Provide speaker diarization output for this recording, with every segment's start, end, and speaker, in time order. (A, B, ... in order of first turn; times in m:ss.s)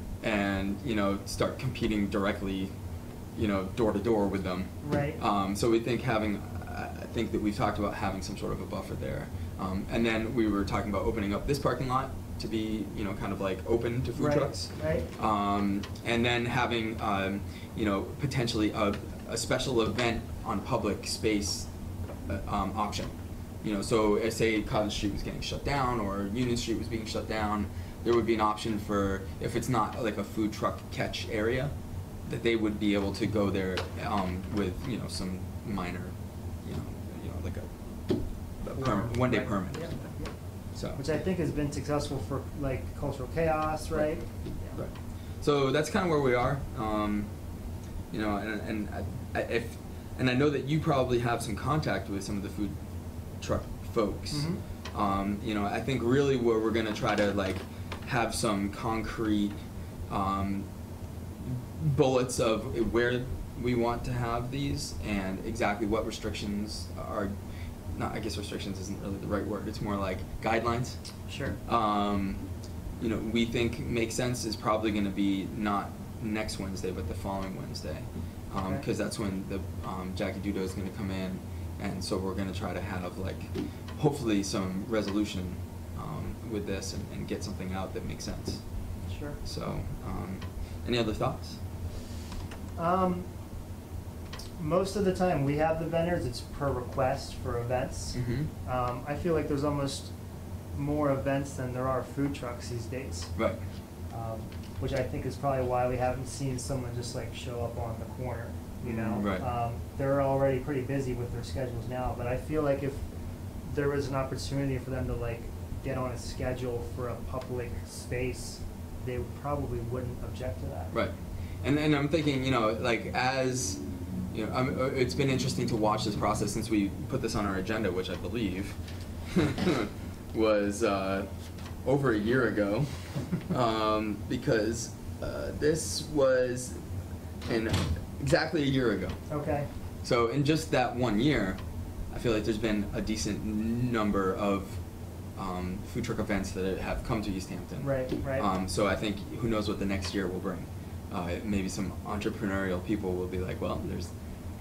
0:00.2-0:02.7 A
0:03.4-0:21.7 A
0:04.8-0:05.2 B
0:14.2-0:15.1 B
0:22.2-0:31.7 A
0:32.2-0:37.7 A
0:38.6-0:40.0 A
0:38.8-0:40.3 B
0:40.7-0:41.0 A
0:41.0-0:44.8 B
0:43.9-0:44.2 A
0:44.7-0:47.3 A
0:48.1-0:52.8 A
0:53.4-0:59.5 A
0:54.3-0:54.6 B
1:00.1-1:00.6 A
1:01.4-1:07.3 A
1:07.9-1:11.0 A
1:11.3-1:11.6 B
1:11.6-1:12.4 A
1:13.0-1:28.6 A
1:29.1-1:29.4 B
1:29.4-1:31.6 A
1:32.8-1:33.2 B
1:34.6-1:40.1 B
1:38.1-1:38.5 A
1:40.7-1:43.3 B
1:44.1-1:53.0 B
1:48.8-1:49.4 A
1:53.6-2:00.9 B
2:00.9-2:03.8 A
2:04.3-2:08.8 A
2:09.3-2:11.3 A
2:11.8-2:12.9 A
2:13.4-2:16.8 A
2:17.4-2:19.2 A
2:19.3-2:19.7 B
2:20.0-2:21.6 A
2:22.1-2:24.8 A
2:25.4-2:34.1 A
2:27.8-2:28.5 B